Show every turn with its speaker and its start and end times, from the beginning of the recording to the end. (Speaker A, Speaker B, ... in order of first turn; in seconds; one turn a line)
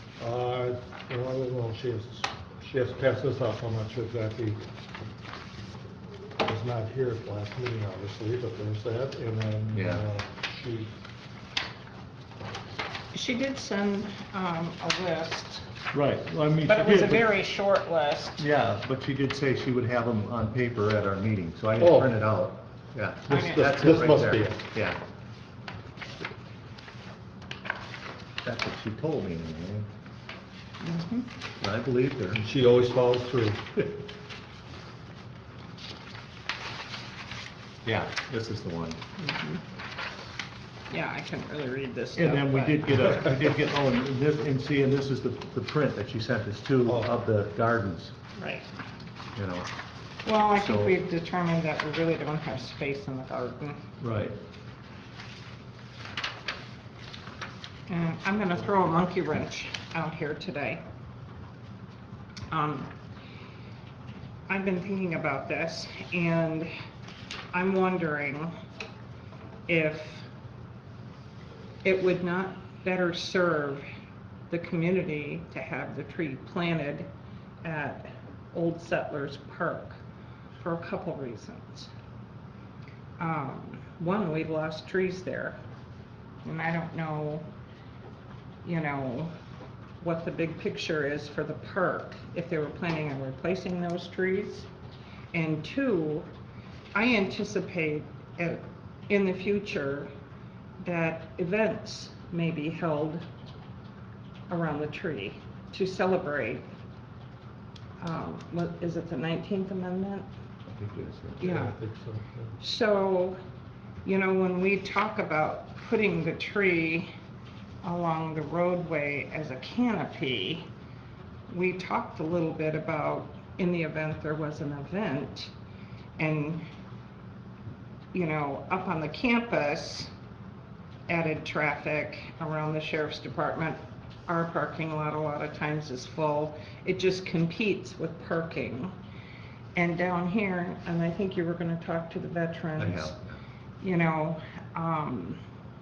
Speaker A: 0.2-4.6
Speaker A: 6.4-10.9
Speaker B: 9.7-10.1
Speaker C: 13.1-15.7
Speaker B: 15.9-17.3
Speaker C: 16.6-18.4
Speaker B: 18.4-25.0
Speaker A: 21.8-22.1
Speaker C: 23.3-23.8
Speaker A: 23.3-24.6
Speaker B: 28.4-29.9
Speaker C: 30.8-31.3
Speaker B: 31.6-32.4
Speaker A: 32.3-33.8
Speaker B: 37.8-39.0
Speaker C: 39.2-39.6
Speaker C: 40.9-43.4
Speaker B: 42.1-48.1
Speaker C: 48.4-48.7
Speaker B: 49.3-49.7
Speaker C: 50.2-53.8
Speaker B: 50.5-51.0
Speaker B: 54.0-54.4
Speaker C: 57.9-60.8
Speaker C: 62.5-62.9
Speaker C: 64.5-66.7
Speaker C: 67.5-68.5
Speaker C: 69.7-70.3
Speaker C: 71.8-73.8
Speaker C: 74.5-77.1
Speaker C: 77.6-80.0
Speaker C: 80.5-81.9
Speaker C: 83.2-85.6
Speaker C: 86.4-87.5
Speaker C: 88.6-89.3
Speaker C: 90.0-94.7
Speaker C: 95.3-96.3
Speaker C: 96.9-100.1
Speaker C: 100.8-103.2
Speaker C: 104.5-106.7
Speaker C: 108.0-110.3
Speaker B: 110.7-111.4
Speaker A: 111.4-112.5
Speaker C: 111.4-111.8
Speaker C: 112.6-113.4
Speaker C: 114.0-117.1
Speaker C: 117.8-120.7
Speaker C: 121.5-125.5
Speaker C: 126.2-126.6
Speaker C: 128.1-130.1
Speaker C: 131.1-138.9
Speaker C: 139.7-143.2
Speaker B: 142.8-143.3
Speaker C: 143.8-145.4